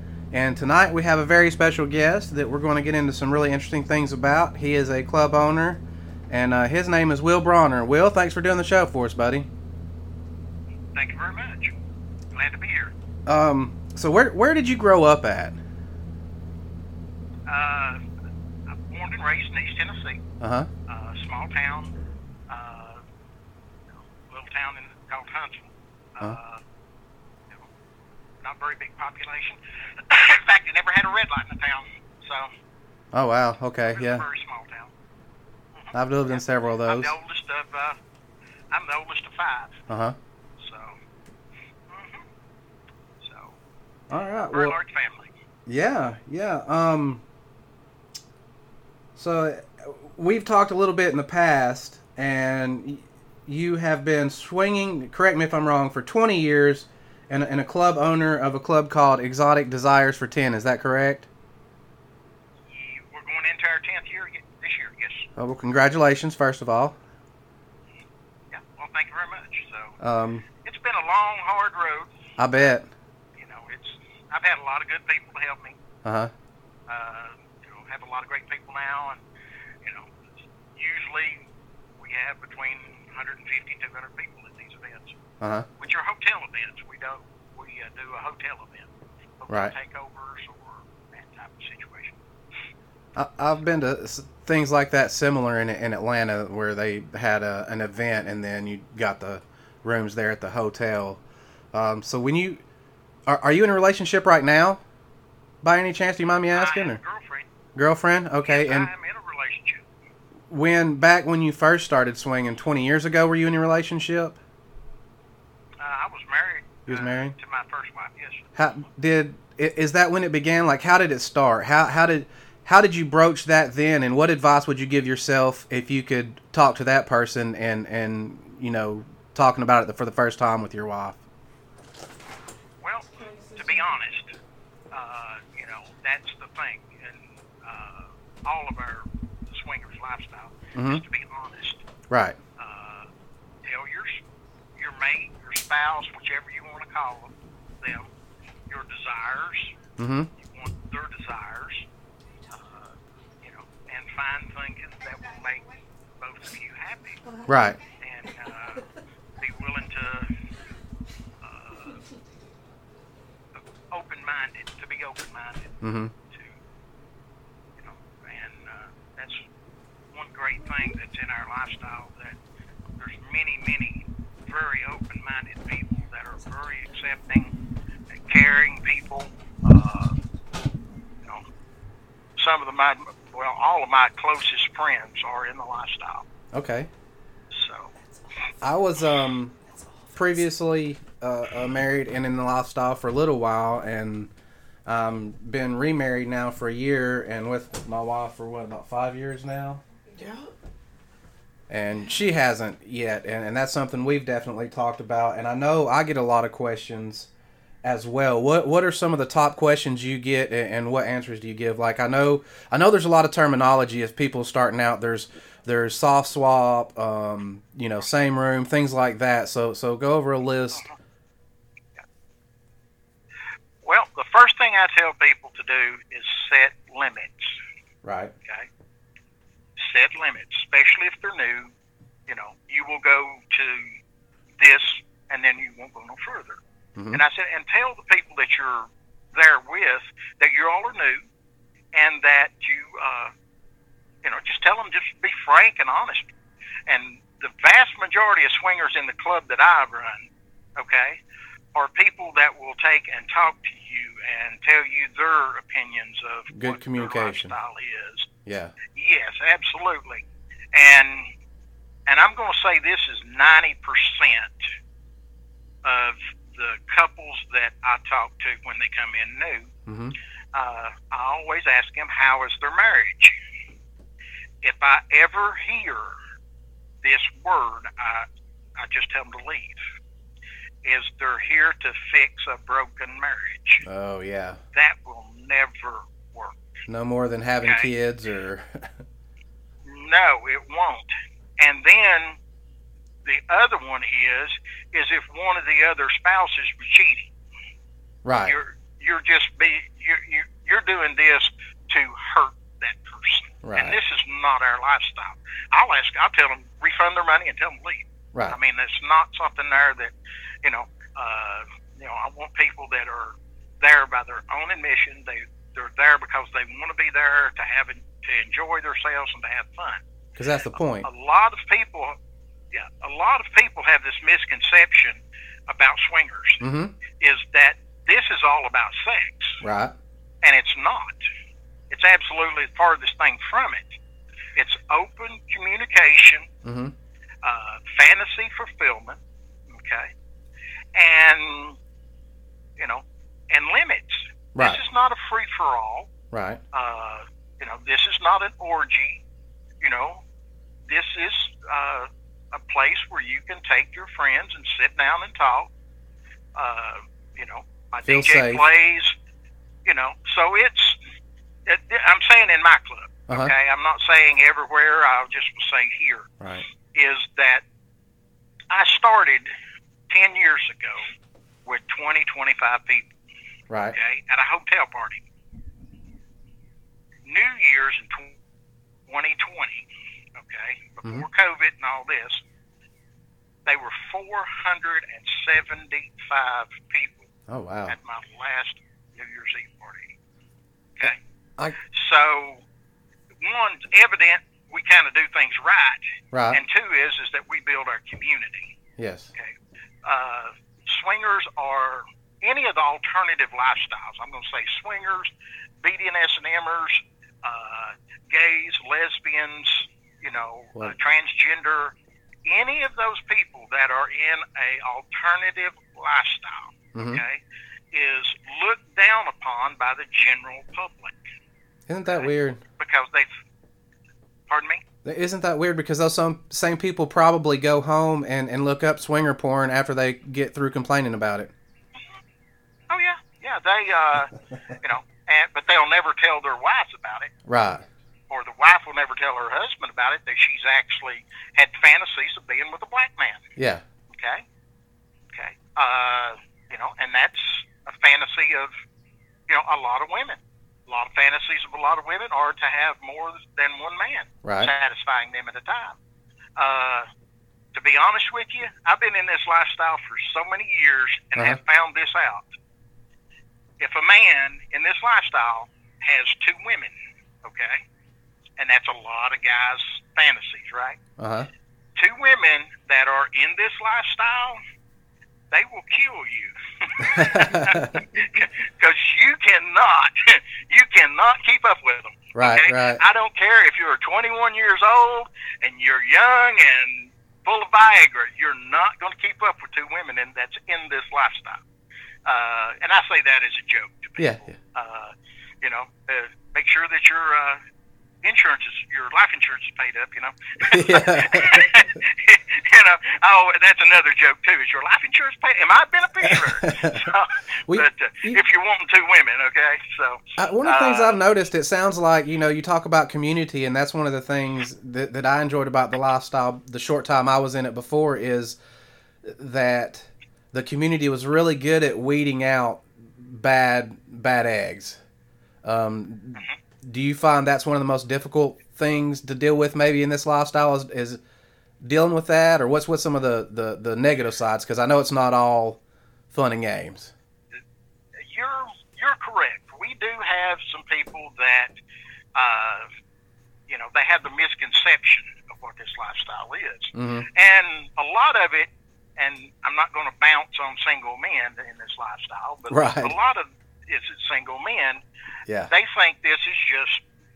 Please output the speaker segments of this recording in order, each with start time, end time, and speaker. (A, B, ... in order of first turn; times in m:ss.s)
0:00.3-0:09.5 A
0:11.0-0:11.7 B
0:12.3-0:12.9 B
0:13.3-0:15.6 A
0:17.5-0:18.0 B
0:18.7-0:20.2 B
0:20.4-0:20.7 A
0:20.9-0:21.9 B
0:22.5-0:23.0 B
0:24.0-0:26.6 B
0:28.4-0:32.5 B
0:33.1-0:34.3 A
0:33.9-0:34.9 B
0:35.7-0:38.0 B
0:35.9-0:37.1 A
0:38.7-0:39.8 B
0:39.9-0:40.2 A
0:40.6-0:41.0 B
0:41.9-0:42.3 B
0:43.2-0:43.6 B
0:44.1-0:44.8 A
0:44.5-0:45.3 B
0:45.7-0:47.2 A
0:49.2-1:01.3 A
1:02.7-1:05.3 B
1:05.4-1:07.0 A
1:08.5-1:10.0 B
1:10.0-1:10.4 A
1:10.6-1:12.1 B
1:12.4-1:12.9 A
1:13.4-1:15.8 B
1:16.0-1:16.3 A
1:16.9-1:19.2 B
1:19.8-1:20.2 B
1:20.7-1:21.5 B
1:22.0-1:25.2 B
1:25.4-1:25.7 A
1:25.8-1:32.2 B
1:29.5-1:29.7 A
1:33.2-1:41.2 A
1:41.7-1:42.6 A
1:43.3-1:44.8 A
1:45.6-1:47.0 A
1:46.5-1:47.5 B
1:47.8-1:48.9 A
1:48.5-1:49.8 B
1:50.5-1:54.4 A
1:55.8-1:58.5 B
1:56.9-1:57.4 A
1:58.6-2:11.2 A
2:12.8-2:14.4 B
2:13.2-2:13.7 C
2:14.9-2:21.8 B
2:20.7-2:21.0 A
2:22.1-2:22.4 A
2:22.6-2:23.1 B
2:23.6-2:24.2 B
2:24.8-2:28.1 B
2:28.7-2:29.8 B
2:30.0-2:30.3 A
2:30.4-2:31.9 B
2:32.5-2:35.6 B
2:36.2-2:37.2 B
2:37.2-2:37.5 C
2:37.5-2:37.8 A
2:38.0-2:38.9 B
2:39.4-2:40.3 B
2:41.4-2:42.0 B
2:43.5-2:45.8 B
2:45.8-2:46.1 A
2:46.3-2:46.6 B
2:47.8-2:49.5 B
2:50.1-2:52.4 B
2:53.0-2:57.5 B
2:58.1-3:00.2 B
3:02.4-3:06.3 B
3:06.5-3:06.9 A
3:07.5-3:07.9 B
3:08.0-3:08.7 C
3:08.6-3:09.5 A
3:09.6-3:10.5 C
3:10.2-3:14.3 A
3:14.9-3:19.8 A
3:20.1-3:20.6 C
3:21.7-3:27.3 A
3:27.8-3:40.8 A
3:43.8-3:47.6 B
3:48.0-3:48.3 A
3:49.8-3:51.7 B
3:52.3-3:54.0 B
3:54.6-3:56.6 B
3:57.0-3:57.2 A
3:57.1-4:01.3 B
4:01.9-4:03.3 B
4:04.2-4:06.3 B
4:06.9-4:11.2 B
4:11.8-4:18.3 B
4:16.5-4:17.5 A
4:18.5-4:18.7 A
4:18.9-4:21.3 B
4:22.1-4:24.7 B
4:25.8-4:29.7 B
4:29.9-4:30.2 A
4:30.5-4:33.4 B
4:34.6-4:36.2 B
4:37.0-4:38.3 B
4:38.8-4:39.8 B
4:40.8-4:43.8 B
4:43.8-4:44.6 A
4:44.7-4:46.6 B
4:46.9-4:48.9 A
4:47.6-4:47.9 B
4:49.8-4:52.4 B
4:53.2-4:57.3 B
4:58.2-4:58.6 A
4:58.4-5:10.1 B
5:03.6-5:04.0 A
5:10.6-5:20.0 B
5:20.4-5:21.1 A
5:21.0-5:22.2 B
5:22.7-5:26.6 B
5:26.6-5:27.0 A
5:27.2-5:29.6 B
5:29.6-5:29.9 A
5:30.4-5:31.2 B
5:31.9-5:34.0 B
5:34.6-5:36.5 B
5:36.6-5:36.9 A
5:37.4-5:40.1 B
5:41.0-5:41.8 B
5:42.8-5:46.1 B
5:44.6-5:44.8 A
5:46.3-5:46.6 A
5:46.7-5:49.2 B
5:49.8-5:50.2 B
5:50.9-5:55.7 B
5:56.6-5:59.2 B
5:58.0-5:58.6 A
5:59.8-6:01.0 B
6:01.7-6:06.3 B
6:03.3-6:03.5 A
6:06.9-6:07.6 B
6:08.7-6:09.5 B
6:10.1-6:11.1 B
6:11.7-6:13.1 B
6:13.7-6:14.0 A
6:13.9-6:15.2 B
6:17.3-6:18.4 B
6:19.1-6:22.4 B
6:23.7-6:27.3 B
6:27.5-6:28.0 A
6:27.9-6:30.1 B
6:31.0-6:31.8 A
6:31.8-6:32.6 B
6:33.4-6:38.7 B
6:36.3-6:36.6 A
6:39.0-6:39.3 A
6:39.3-6:45.3 B
6:45.8-6:51.9 B
6:52.5-7:01.2 B
6:57.0-6:57.2 A
7:01.9-7:02.6 A
7:02.1-7:03.3 B
7:04.5-7:04.8 B
7:05.0-7:11.5 A
7:12.9-7:17.3 B
7:17.5-7:17.8 A
7:18.3-7:23.5 B
7:23.6-7:23.8 A
7:24.1-7:24.4 B
7:25.3-7:28.7 B
7:29.5-7:36.0 B
7:34.4-7:34.7 A
7:36.6-7:37.1 B
7:37.7-7:42.5 B
7:43.8-7:47.8 B
7:48.6-7:51.0 B
7:51.2-7:51.5 A
7:52.0-7:54.6 B
7:55.5-8:11.6 B
7:57.1-7:58.0 A
8:02.3-8:03.0 A
8:12.3-8:17.6 B
8:14.2-8:14.6 A
8:18.2-8:31.2 B
8:20.7-8:21.8 A
8:26.2-8:27.1 A
8:27.7-8:28.4 A
8:30.4-8:38.6 A
8:39.2-8:45.0 A
8:45.6-8:51.2 A
8:51.8-8:55.8 A
8:56.3-8:57.1 A
8:58.2-9:01.7 B
9:02.4-9:02.9 B
9:03.7-9:15.0 B
9:06.9-9:07.3 A
9:12.7-9:13.2 A
9:15.7-9:17.0 B